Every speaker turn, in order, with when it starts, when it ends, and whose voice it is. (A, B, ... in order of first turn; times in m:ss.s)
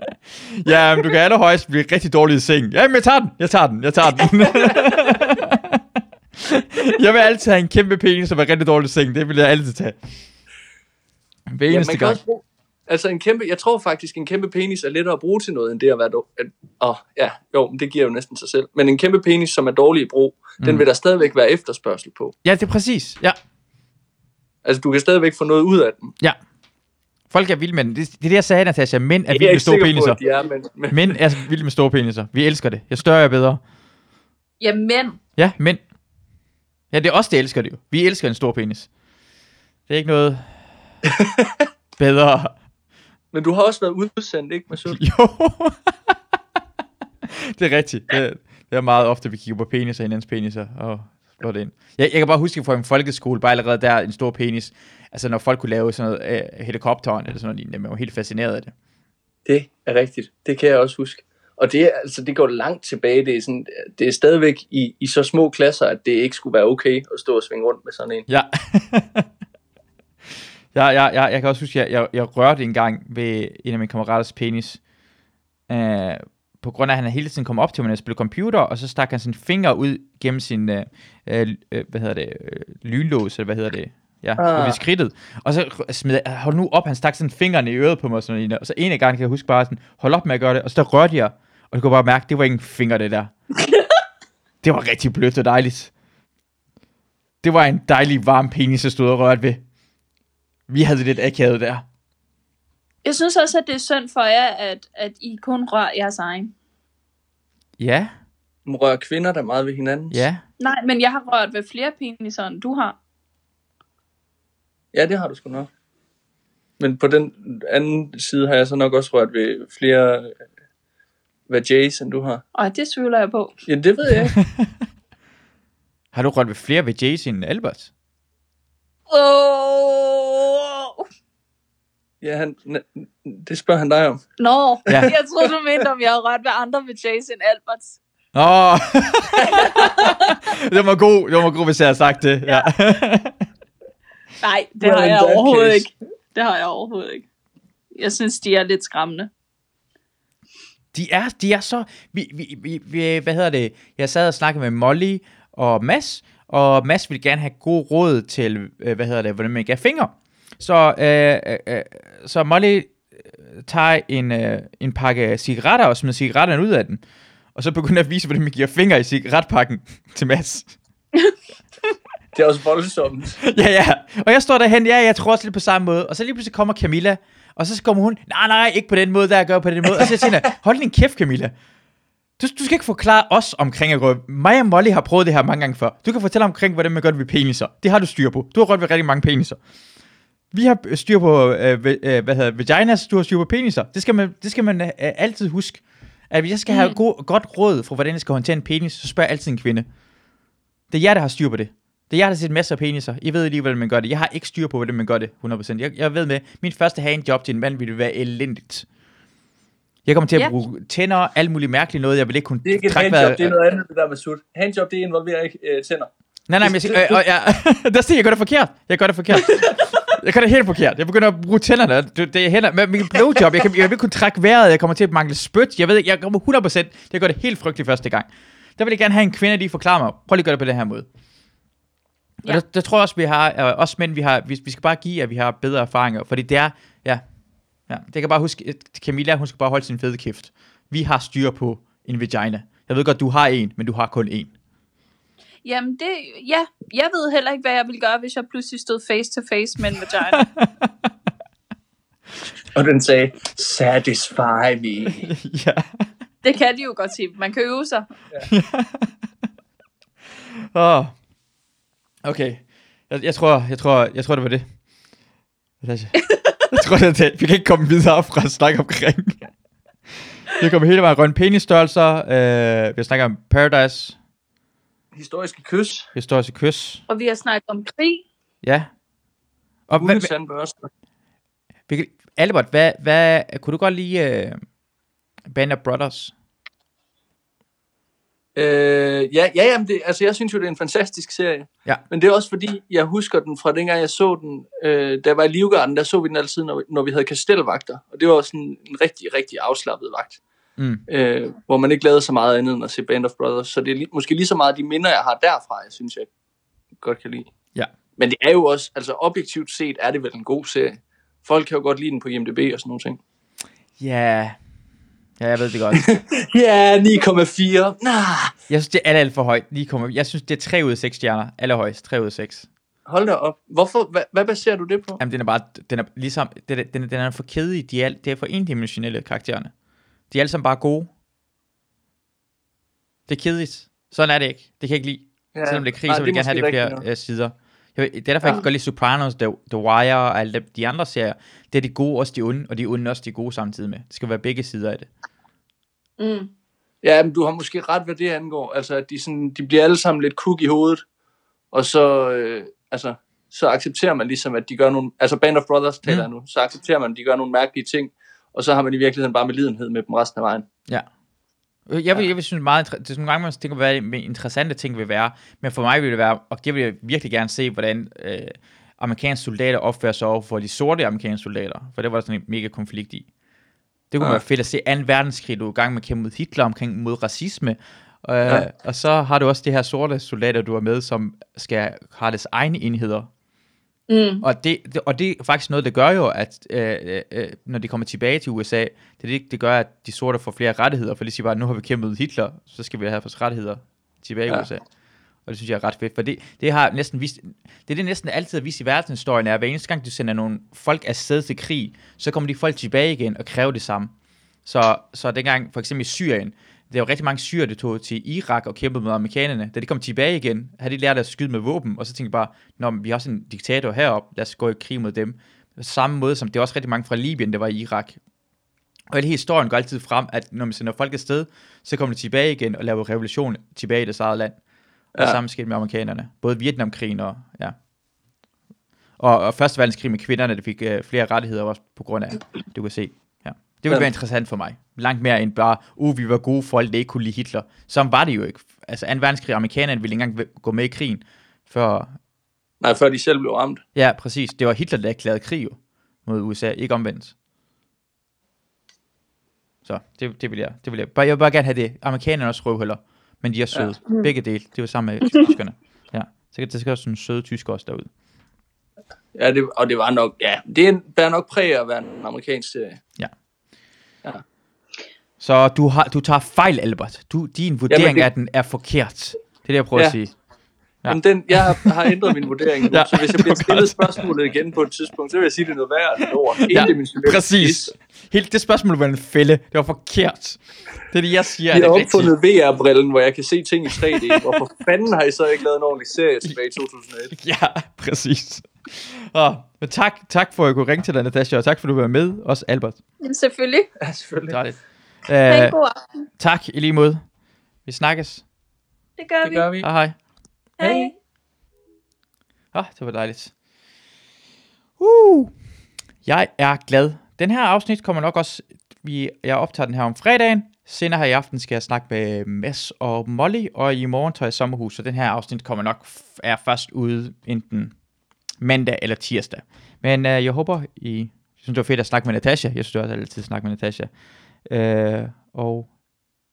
0:00.4-0:05.8 A
0:04.4-0:05.0 B
0:06.4-0:10.0 A
0:11.5-0:12.2 A
0:11.7-0:22.3 C
0:20.6-0:20.8 A
0:22.4-0:23.4 A
0:24.6-0:26.1 C
0:27.3-0:30.2 A
0:29.3-0:31.2 C
0:30.9-0:33.6 A
0:34.6-0:35.2 B
0:35.4-0:35.8 A
0:36.9-0:38.9 A
0:39.9-0:40.6 A
0:41.0-0:41.7 C
0:42.0-0:42.5 A
0:43.3-0:45.0 C
0:44.9-0:45.9 A
0:47.2-0:58.7 A
0:59.4-1:08.2 C
1:08.3-1:09.3 A
1:10.7-1:14.8 A
1:15.7-1:33.3 A
1:24.4-1:24.8 C
1:34.6-1:35.9 A
1:37.4-1:39.6 A
1:40.7-1:41.8 A
1:43.0-1:46.5 B
1:47.8-1:48.1 A
1:48.6-1:50.2 C
1:50.1-1:50.4 A
1:50.6-1:53.0 B
1:54.9-1:55.7 C
1:56.8-2:00.3 C
2:01.5-2:02.4 C
2:02.5-2:03.6 B
2:03.7-2:04.4 C
2:04.4-2:04.7 A
2:06.1-2:07.9 A
2:09.1-2:11.0 B
2:12.2-2:14.2 C
2:14.4-2:18.0 B
2:14.9-2:15.1 A
2:14.9-2:15.4 C
2:18.3-2:23.4 A
2:19.4-2:20.4 B
2:24.4-2:27.2 B
2:24.8-2:25.9 C
2:27.9-2:29.3 B
2:30.9-2:47.0 A
2:47.5-2:50.7 A
2:52.3-2:53.4 C
2:53.4-3:01.5 A
3:02.4-3:09.6 A
3:10.5-3:19.8 A
3:16.7-3:17.0 B
3:20.9-3:28.8 A
3:30.0-3:33.5 A
3:32.6-3:36.1 C
3:36.5-3:51.1 A
3:36.6-3:37.2 C
3:52.4-3:57.2 A
3:57.9-4:04.5 A
4:05.6-4:10.5 B
4:10.3-4:10.9 A
4:12.7-4:15.3 C
4:15.1-4:15.9 A
4:16.4-4:18.1 B
4:18.5-4:19.1 A
4:20.7-4:21.1 A
4:22.2-4:24.6 A
4:25.8-4:26.1 A
4:26.2-4:26.7 B
4:26.7-4:29.5 A
4:30.5-4:34.2 A
4:35.1-4:36.1 C
4:36.1-4:37.0 A
4:37.1-4:38.2 B
4:38.6-4:38.9 A
4:39.9-4:40.3 A
4:40.0-4:40.9 C
4:41.9-4:44.6 A
4:45.5-4:46.3 A
4:48.6-5:00.4 C
5:00.8-5:01.0 A
5:01.1-5:06.3 C
5:07.0-5:07.5 C
5:08.2-5:13.2 C
5:14.0-5:14.6 A
5:15.4-5:16.0 A
5:15.9-5:18.5 C
5:18.7-5:22.7 A
5:23.0-5:25.2 C
5:25.2-5:29.7 A
5:30.3-5:31.1 A
5:33.3-5:45.1 A
5:35.5-5:37.0 C
5:46.2-5:46.5 B
5:47.0-5:51.0 C
5:51.7-6:00.7 C
6:01.9-6:13.3 A
6:14.1-6:23.3 A
6:24.1-6:24.4 B
6:24.4-6:34.8 A
6:35.4-6:44.1 A
6:44.6-6:58.2 A
6:59.1-7:04.6 A
7:05.1-7:05.4 C
7:05.2-7:07.8 A
7:09.2-7:22.1 A
7:22.8-7:23.8 C
7:23.9-7:27.3 A
7:29.8-7:38.1 A
7:39.3-7:43.0 C
7:45.4-7:50.3 A
7:47.9-7:48.3 C
7:51.0-7:54.3 A
7:51.1-7:57.9 C
7:56.7-8:02.3 A
8:01.7-8:07.3 C
8:03.9-8:04.6 A
8:07.3-8:13.0 A
8:13.2-8:13.9 B
8:14.0-8:14.6 C
8:14.5-8:15.8 A
8:15.4-8:16.3 B
8:16.4-8:17.2 A
8:17.8-8:18.4 A
8:19.2-8:19.7 B
8:19.4-8:19.9 C
8:19.8-8:20.2 A
8:20.8-8:21.1 B
8:20.8-8:21.1 C
8:22.7-8:23.5 A
8:25.0-8:25.5 A
8:26.2-8:37.9 A
8:38.6-8:44.1 A
8:44.7-8:45.9 A